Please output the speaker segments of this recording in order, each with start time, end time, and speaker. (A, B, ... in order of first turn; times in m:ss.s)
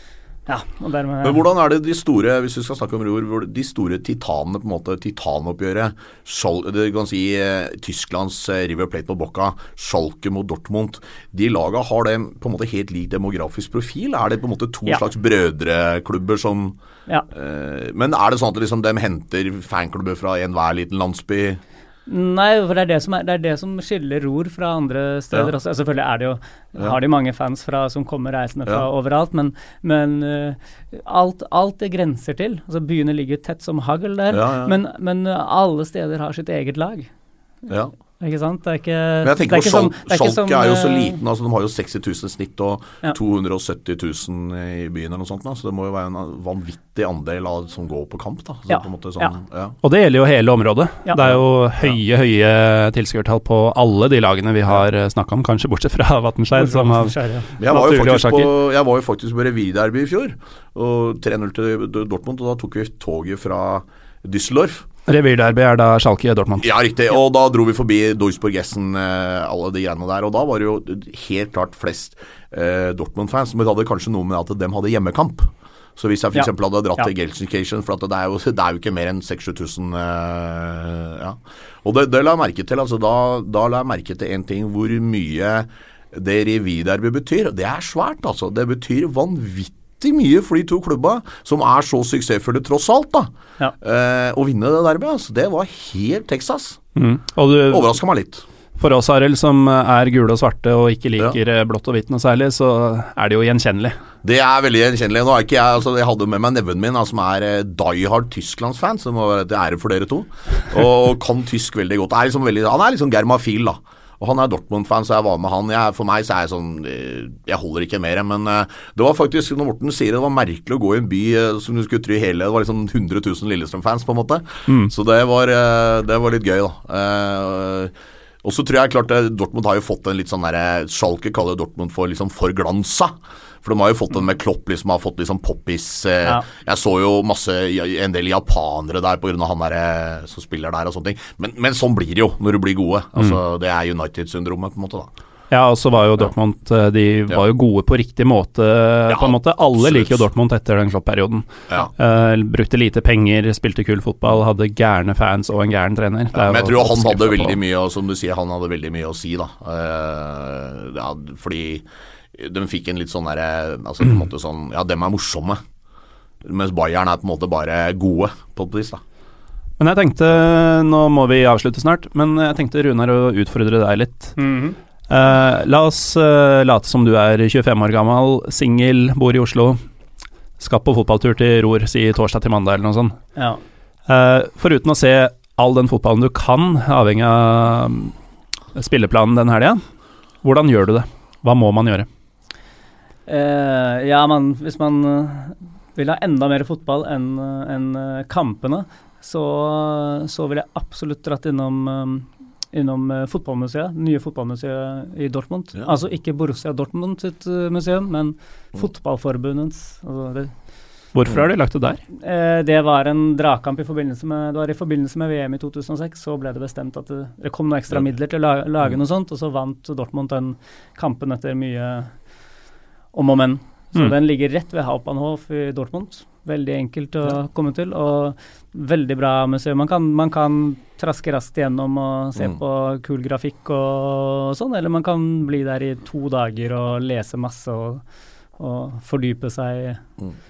0:00.5-0:01.5 A
0:01.2-0:16.8 B
0:17.3-0:21.6 B
0:22.0-0:37.1 A
0:34.3-0:34.8 B
0:37.7-0:37.9 B
0:38.2-0:41.2 A
0:39.2-0:49.8 B
0:48.7-0:49.3 A
0:49.8-0:58.5 C
0:51.2-0:52.0 B
0:56.5-0:57.5 A
0:57.6-1:04.9 B
1:05.1-1:06.7 C
1:06.6-1:36.8 B
1:16.3-1:17.1 A
1:37.0-1:37.9 C
1:37.7-1:38.4 B
1:38.8-1:44.0 C
1:44.2-2:25.1 B
2:25.5-2:37.6 C
2:29.1-2:30.2 B
2:36.3-2:45.6 B
2:46.4-2:49.0 B
2:49.8-2:54.4 C
2:54.4-2:54.8 A
2:55.1-2:59.8 C
3:00.6-3:03.2 C
3:04.1-3:08.1 C
3:08.7-3:09.8 C
3:10.4-3:12.1 C
3:13.3-3:30.5 A
3:31.1-3:32.0 C
3:32.2-3:42.1 A
3:43.1-3:58.0 A
3:58.6-4:00.0 A